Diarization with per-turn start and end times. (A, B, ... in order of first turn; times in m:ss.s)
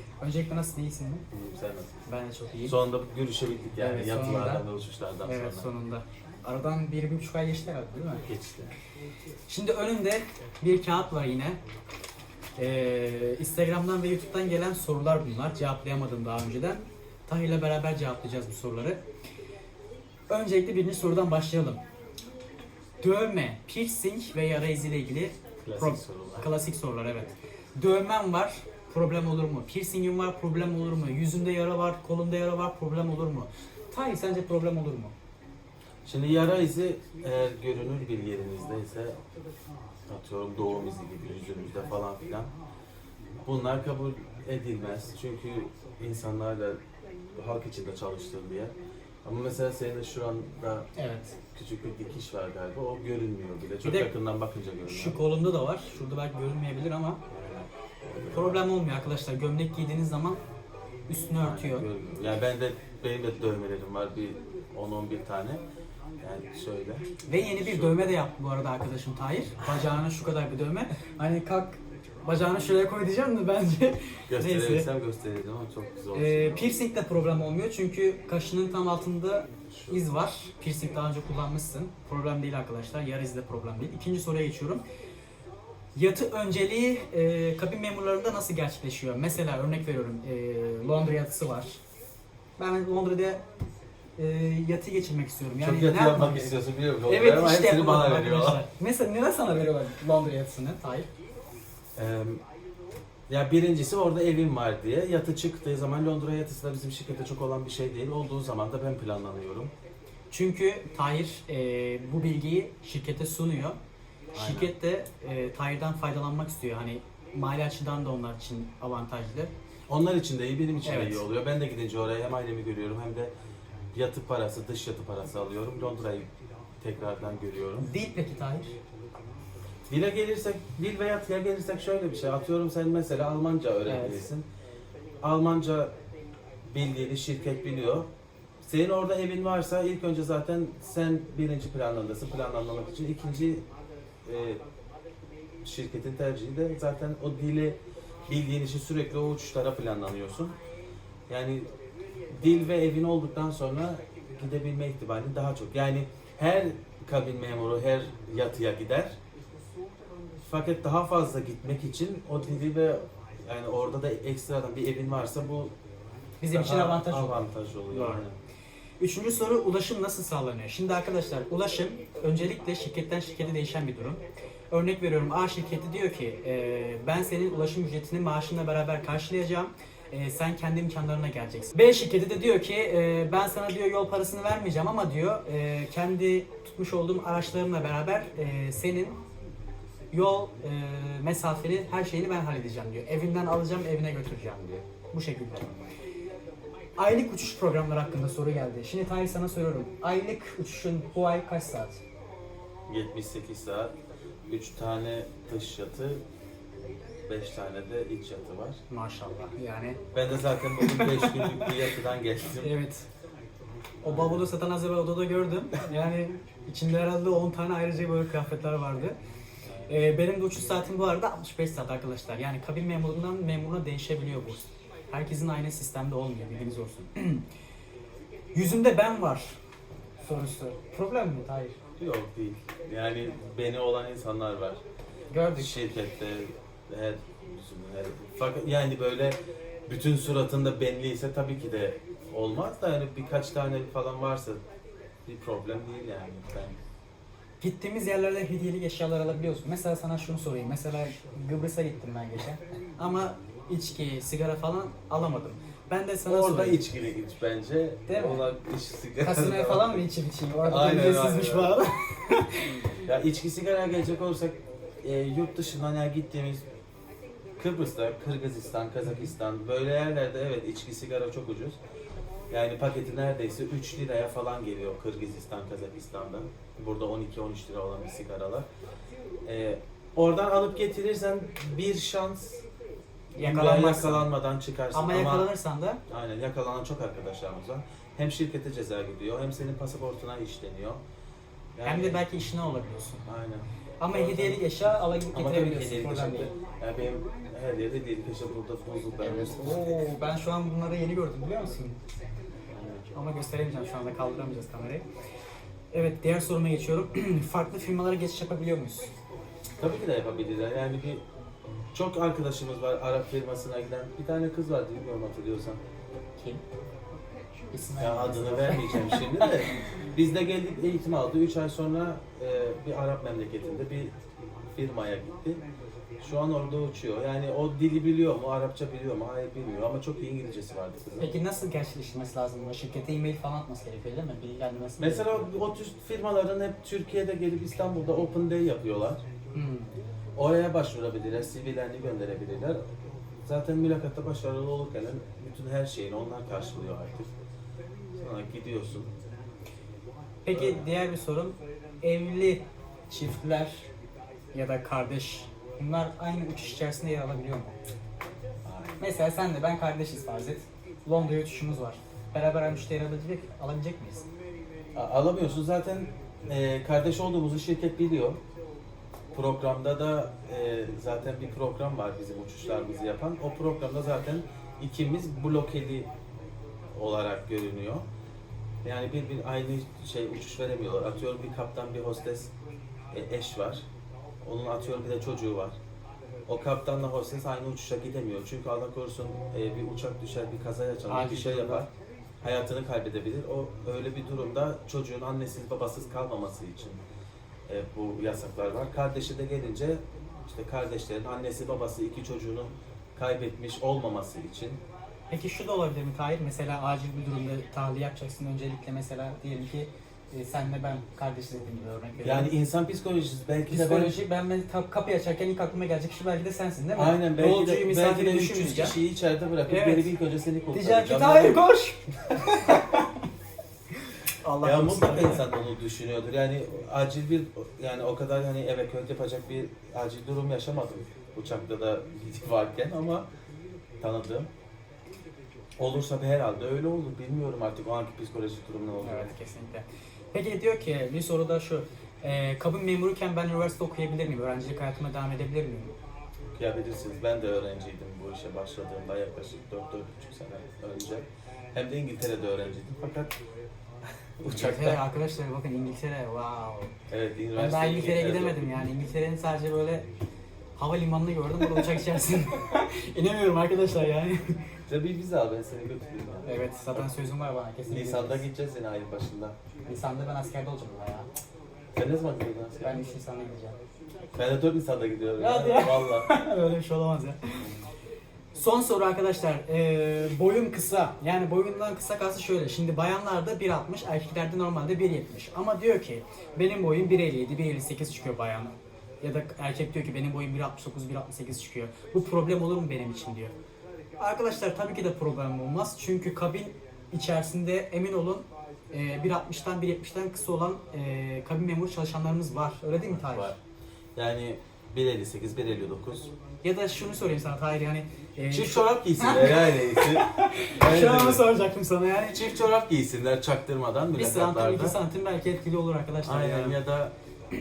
0:00.2-0:01.2 A
0:01.3-0:02.0 B
0:02.0-0:02.8 A
0:02.6-0:05.7 B
0:03.8-0:04.6 A
0:05.2-0:08.3 A
0:08.2-0:08.7 B
0:09.5-0:11.6 A
0:12.6-0:19.0 A
0:20.3-0:21.8 A
0:23.0-0:35.1 A
0:25.6-0:26.5 B
0:36.0-0:39.2 B
0:40.1-0:42.5 B
0:43.4-0:46.8 B
0:47.4-0:50.9 B
0:50.9-0:51.3 A
0:51.5-0:55.2 B
0:53.8-0:54.1 A
0:54.8-0:57.2 A
0:57.3-0:58.6 B
0:58.3-1:00.4 A
1:01.1-1:01.9 A
1:01.4-1:05.6 B
1:06.2-1:08.1 B
1:07.3-1:14.9 A
1:14.3-1:16.7 B
1:16.1-1:24.8 A
1:19.7-1:20.0 B
1:25.9-1:31.8 A
1:32.6-1:33.4 A
1:34.2-1:41.1 A
1:35.6-1:38.6 B
1:42.0-1:42.4 B
1:43.3-1:49.7 B
1:50.3-1:53.8 A
1:54.3-1:54.7 B
1:54.3-1:59.5 A
1:59.9-2:03.3 B
2:00.8-2:01.2 A
2:03.9-2:06.3 B
2:06.8-2:07.9 B
2:07.8-2:08.7 A
2:09.9-2:14.4 B
2:13.9-2:14.2 A
2:15.2-2:15.9 B
2:16.7-2:18.1 B
2:18.6-2:23.6 B
2:24.2-2:24.6 B
2:25.6-2:30.6 B
2:31.3-2:31.7 B
2:32.3-2:39.1 B
2:40.5-2:45.7 B
2:46.4-2:48.2 A
2:46.5-2:48.4 B
2:49.0-3:09.2 A
3:10.1-3:15.7 A
3:17.0-3:22.0 A
3:22.9-3:23.9 B
3:24.5-3:26.2 B
3:27.3-3:28.8 B
3:28.9-3:30.0 A
3:30.1-3:32.7 B
3:30.8-3:31.8 A
3:32.6-3:33.0 A
3:34.0-3:34.5 B
3:34.0-3:39.2 A
3:39.9-3:47.4 A
3:48.5-3:49.5 A
3:50.2-3:51.8 A
3:52.0-3:54.8 B
3:55.3-3:55.8 A
3:55.5-3:59.3 B
3:59.9-4:04.6 B
4:05.2-4:06.8 B
4:07.6-4:16.8 A
4:16.2-4:20.0 B
4:18.1-4:18.4 A
4:19.2-4:22.9 A
4:20.6-4:21.8 B
4:23.0-4:26.6 B
4:27.6-4:31.8 B
4:32.5-4:38.7 B
4:39.4-4:42.6 B
4:43.3-4:44.3 A
4:43.4-4:45.5 B
4:44.9-4:46.0 A
4:46.1-4:51.0 B
4:51.8-4:52.2 B
4:51.8-4:53.2 A
4:53.2-4:54.7 B
4:54.0-4:56.5 A
4:55.3-5:00.0 B
4:59.2-5:02.0 A
5:02.7-5:03.1 B
5:03.1-5:05.0 A
5:05.9-5:09.1 A
5:09.8-5:11.2 B
5:11.9-5:15.8 B
5:17.7-5:19.8 A
5:18.0-5:24.1 B
5:24.7-5:25.6 B
5:26.2-5:31.4 B
5:31.2-5:35.5 A
5:35.0-5:39.2 B
5:39.5-5:39.9 A
5:40.4-5:42.8 B
5:43.4-5:47.3 B
5:48.2-5:49.1 B
5:50.4-5:53.9 A
5:50.5-5:50.9 B
5:54.5-5:57.7 A
5:58.6-5:59.0 B
5:59.0-6:04.2 A
6:04.9-6:08.4 B
6:09.3-6:16.1 B
6:16.9-6:18.0 B
6:18.8-6:22.5 B
6:23.1-6:23.8 B
6:24.4-6:25.8 B
6:26.5-6:31.9 B
6:31.1-6:31.8 A
6:32.4-6:37.0 B
6:37.7-6:44.8 B
6:45.3-6:52.5 A
6:52.2-6:54.2 B
6:53.7-6:59.0 A
6:56.9-7:01.6 B
6:59.7-7:00.1 A
7:00.7-7:03.1 A
7:04.4-7:05.4 A
7:04.6-7:13.2 B
7:14.0-7:14.5 B
7:15.8-7:19.3 B
7:19.0-7:25.9 A
7:26.5-7:33.3 B
7:34.4-7:35.0 B
7:34.4-7:36.9 A
7:37.1-7:38.7 B
7:37.6-7:40.1 A
7:40.8-7:44.5 A
7:44.9-7:47.1 B
7:46.4-7:48.4 A
7:47.9-7:49.5 B
7:49.9-7:51.3 A
7:51.9-7:53.0 B
7:52.8-7:53.8 A
7:54.3-7:56.3 B
7:55.4-7:57.6 A
7:57.6-7:57.9 B
7:58.5-8:13.5 A
8:14.2-8:23.5 A
8:23.1-8:23.6 B
8:24.2-8:26.3 B
8:26.6-8:32.5 A
8:28.5-8:31.5 B
8:32.3-8:35.0 B
8:34.1-8:36.8 A
8:36.2-8:37.1 B